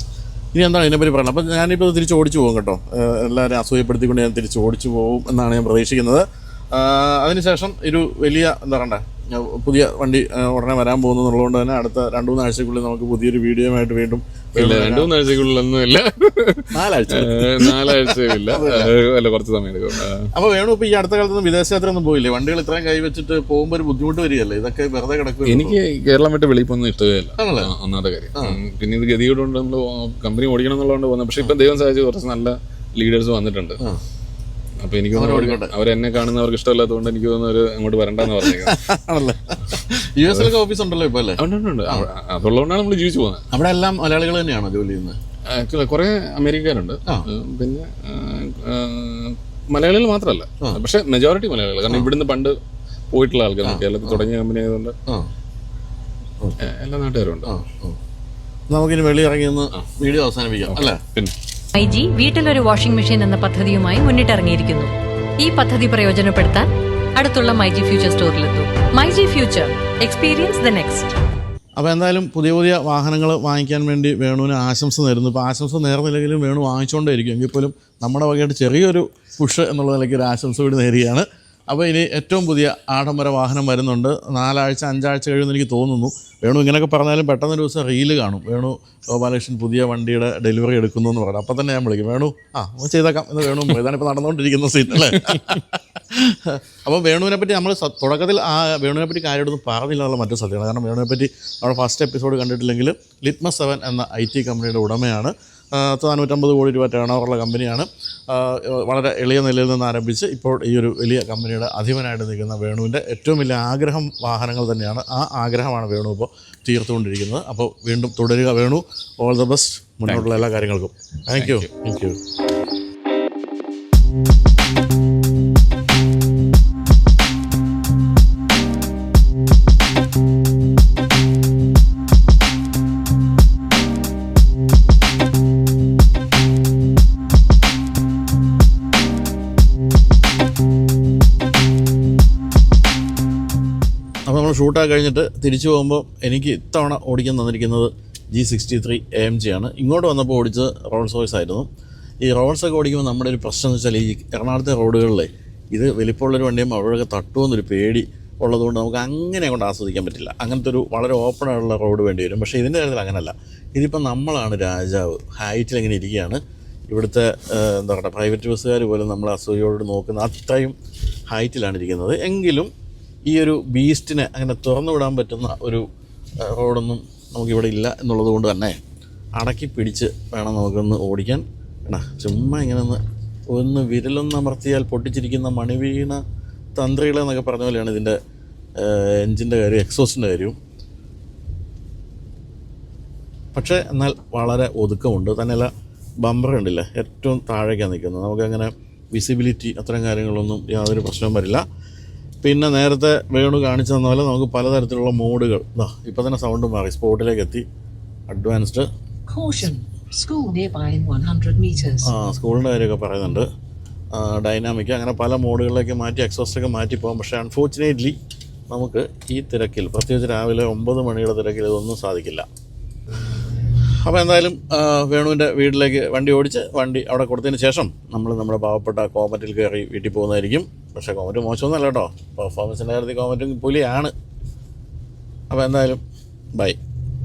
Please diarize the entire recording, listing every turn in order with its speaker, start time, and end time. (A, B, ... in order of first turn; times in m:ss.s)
0:00.5-0:15.1 A
0:14.6-0:20.3 B
0:16.7-0:18.9 A
0:20.3-0:25.8 A
0:25.4-0:33.8 B
0:27.4-0:27.7 A
0:28.3-0:28.6 A
0:34.8-0:38.8 B
0:35.1-0:35.7 A
0:38.4-0:42.1 A
0:40.3-0:40.6 B
0:41.4-0:43.5 B
0:43.5-0:45.2 A
0:45.4-0:52.6 B
0:53.1-0:54.9 B
0:53.6-0:54.2 A
0:56.6-0:57.5 B
0:57.4-0:58.0 A
0:58.7-1:01.0 A
1:00.7-1:01.3 B
1:01.7-1:11.1 C
1:11.8-2:02.2 A
1:34.9-1:35.6 B
2:00.0-2:00.4 B
2:01.3-2:01.7 B
2:24.3-2:31.7 A
2:32.2-2:50.7 A
2:51.3-2:52.7 A
2:53.3-2:55.8 A
2:56.4-2:58.8 A
2:59.4-3:06.2 A
3:06.8-3:08.2 A
3:08.8-3:10.6 A
3:13.5-3:21.6 A
3:22.4-3:27.6 A
3:28.3-3:28.9 A
3:29.3-3:32.1 D
3:32.0-3:33.5 A
3:34.1-3:38.2 A
3:38.7-3:42.5 A
3:43.8-3:54.1 A
3:55.5-3:56.0 A